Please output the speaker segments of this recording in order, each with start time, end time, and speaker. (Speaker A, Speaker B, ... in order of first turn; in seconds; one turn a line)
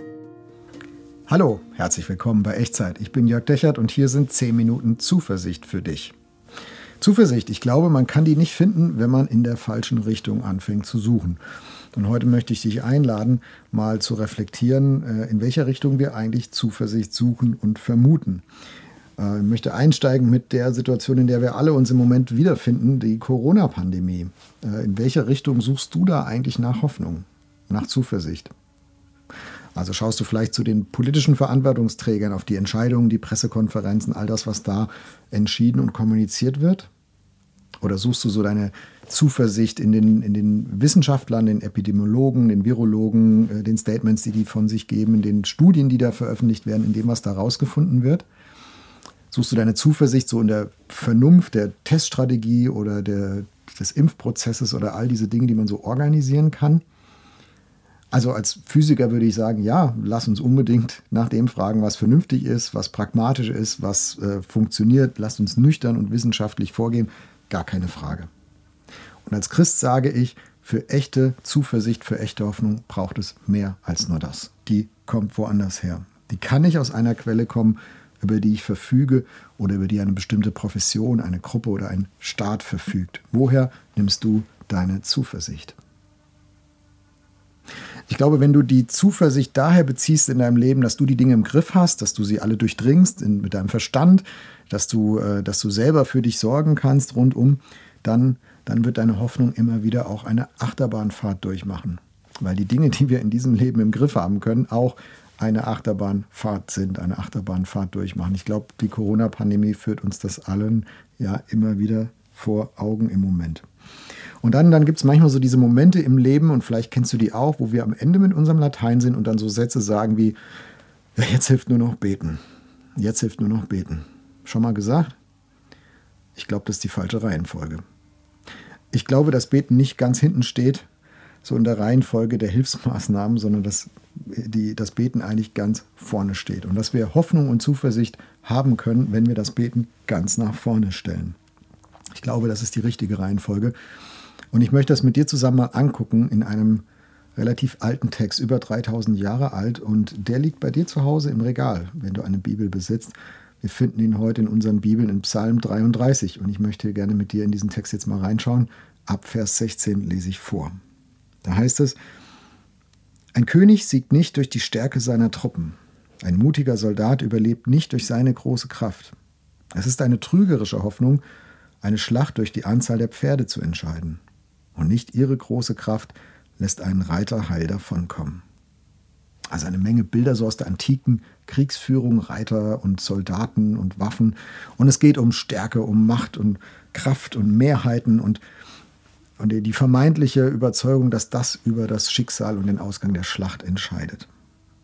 Speaker A: 1.3-6.2
Speaker A: 7.0-11.4
Speaker A: 11.9-18.4
Speaker A: 19.2-28.5
Speaker A: 29.8-36.9
Speaker A: 37.8-48.2
Speaker A: 49.3-56.8
Speaker A: 58.1-68.3
Speaker A: 69.3-85.8
Speaker A: 88.1-113.6
Speaker A: 114.4-120.4
Speaker A: 121.2-122.4
Speaker A: 123.0-125.2
Speaker A: 126.4-127.8
Speaker A: 128.9-130.9
Speaker A: 131.4-141.4
Speaker A: 142.2-143.8
Speaker A: 144.5-146.8
Speaker A: 147.4-160.8
Speaker A: 161.4-162.0
Speaker A: 163.3-169.2
Speaker A: 169.7-171.2
Speaker A: 171.8-174.2
Speaker A: 174.8-178.4
Speaker A: 179.5-188.4
Speaker A: 189.4-194.3